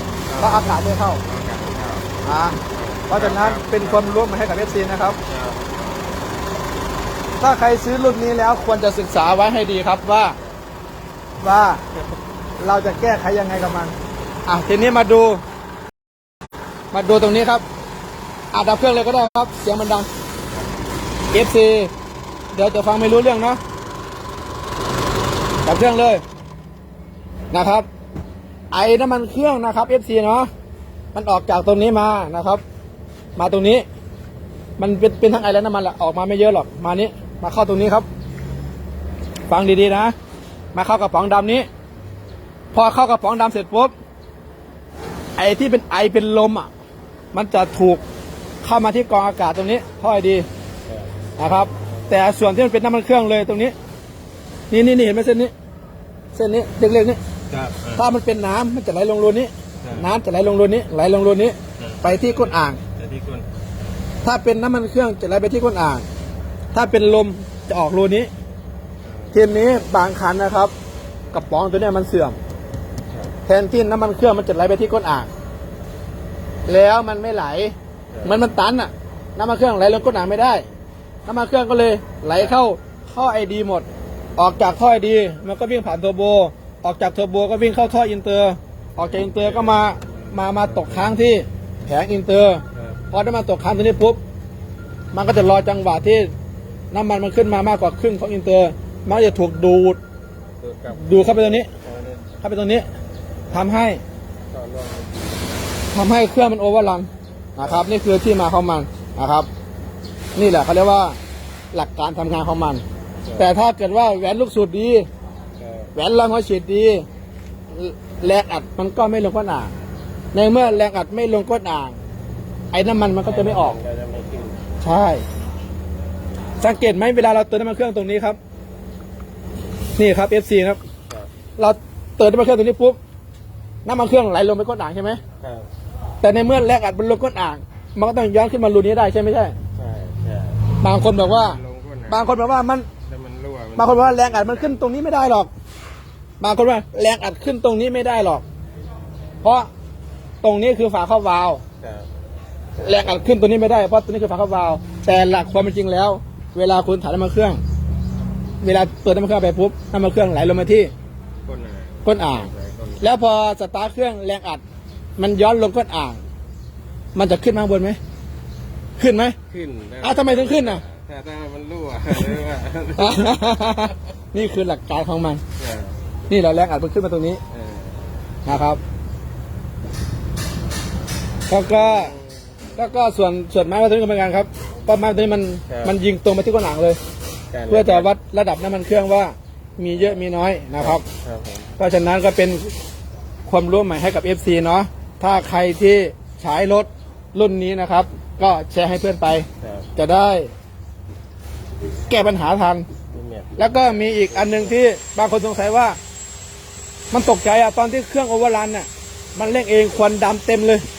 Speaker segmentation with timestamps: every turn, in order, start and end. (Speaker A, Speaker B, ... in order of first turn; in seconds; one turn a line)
Speaker A: 0.3-2.1
Speaker B: 0.4-1.2
Speaker B: 2.2-2.6
Speaker A: 2.7-4.2
Speaker B: 3.1-5.2
Speaker A: 5.3-6.4
Speaker B: 7.4-10.4
Speaker B: 11.4-11.8
Speaker B: 12.6-13.9
Speaker B: 14.5-15.4
Speaker B: 16.9-17.6
Speaker B: 18.5-20.1
Speaker A: 20.5-20.8
Speaker B: 21.3-21.9
Speaker B: 22.5-23.6
Speaker B: 25.6-26.2
Speaker B: 27.5-27.9
Speaker B: 28.7-30.5
Speaker B: 31.1-32.6
Speaker B: 33.4-33.9
Speaker B: 34.8-38.1
Speaker B: 39.5-40.1
Speaker B: 40.7-41.7
Speaker B: 42.7-43.9
Speaker B: 45.4-46.7
Speaker B: 47.3-48.0
Speaker B: 48.6-50.5
Speaker B: 51.4-53.8
Speaker A: 51.9-52.1
Speaker B: 54.7-55.5
Speaker B: 56.3-57.2
Speaker A: 57.5-58.0
Speaker B: 58.0-62.8
Speaker A: 59.8-60.1
Speaker A: 61.8-63.5
Speaker B: 64.2-66.1
Speaker B: 66.7-68.3
Speaker A: 69.0-69.4
Speaker B: 69.3-70.7
Speaker B: 71.3-72.4
Speaker B: 73.5-75.3
Speaker B: 76.7-80.7
Speaker A: 78.1-78.4
Speaker B: 81.3-94.2
Speaker A: 89.0-91.1
Speaker A: 92.7-93.0
Speaker B: 95.1-96.3
Speaker B: 96.9-100.0
Speaker A: 100.6-102.3
Speaker B: 100.9-101.7
Speaker B: 102.4-102.9
Speaker B: 103.5-104.0
Speaker A: 104.5-105.7
Speaker B: 105.9-109.5
Speaker A: 107.6-107.8
Speaker B: 110.4-111.2
Speaker B: 111.7-112.8
Speaker A: 113.2-113.5
Speaker B: 113.4-115.1
Speaker A: 115.6-115.9
Speaker B: 116.0-117.1
Speaker B: 117.7-119.7
Speaker B: 120.3-122.0
Speaker B: 122.7-123.8
Speaker A: 123.2-124.6
Speaker B: 124.8-125.2
Speaker B: 126.6-128.4
Speaker B: 130.0-130.8
Speaker B: 131.6-133.0
Speaker B: 133.8-135.2
Speaker A: 135.4-135.7
Speaker B: 136.2-139.6
Speaker A: 139.8-142.5
Speaker B: 140.8-141.6
Speaker B: 142.1-142.9
Speaker A: 143.0-144.8
Speaker B: 143.8-145.5
Speaker B: 146.4-148.4
Speaker B: 149.4-149.7
Speaker B: 150.4-151.6
Speaker A: 151.8-152.1
Speaker B: 152.8-157.6
Speaker B: 158.6-160.9
Speaker A: 161.4-163.1
Speaker B: 162.0-162.5
Speaker B: 163.0-164.6
Speaker B: 165.2-166.2
Speaker B: 167.2-168.0
Speaker B: 169.0-169.4
Speaker A: 169.5-173.7
Speaker B: 170.0-170.8
Speaker B: 173.0-175.4
Speaker A: 175.6-175.9
Speaker B: 176.3-177.4
Speaker A: 177.5-178.1
Speaker B: 178.5-178.8
Speaker B: 181.5-182.1
Speaker A: 181.7-182.9
Speaker B: 182.8-187.0
Speaker A: 185.7-186.0
Speaker A: 187.5-188.1
Speaker B: 187.7-191.0
Speaker A: 189.9-190.2
Speaker A: 190.8-191.7
Speaker B: 191.8-192.7
Speaker B: 193.5-200.5
Speaker A: 199.6-199.9
Speaker B: 202.1-202.9
Speaker A: 203.1-204.8
Speaker B: 203.6-206.0
Speaker B: 207.1-210.8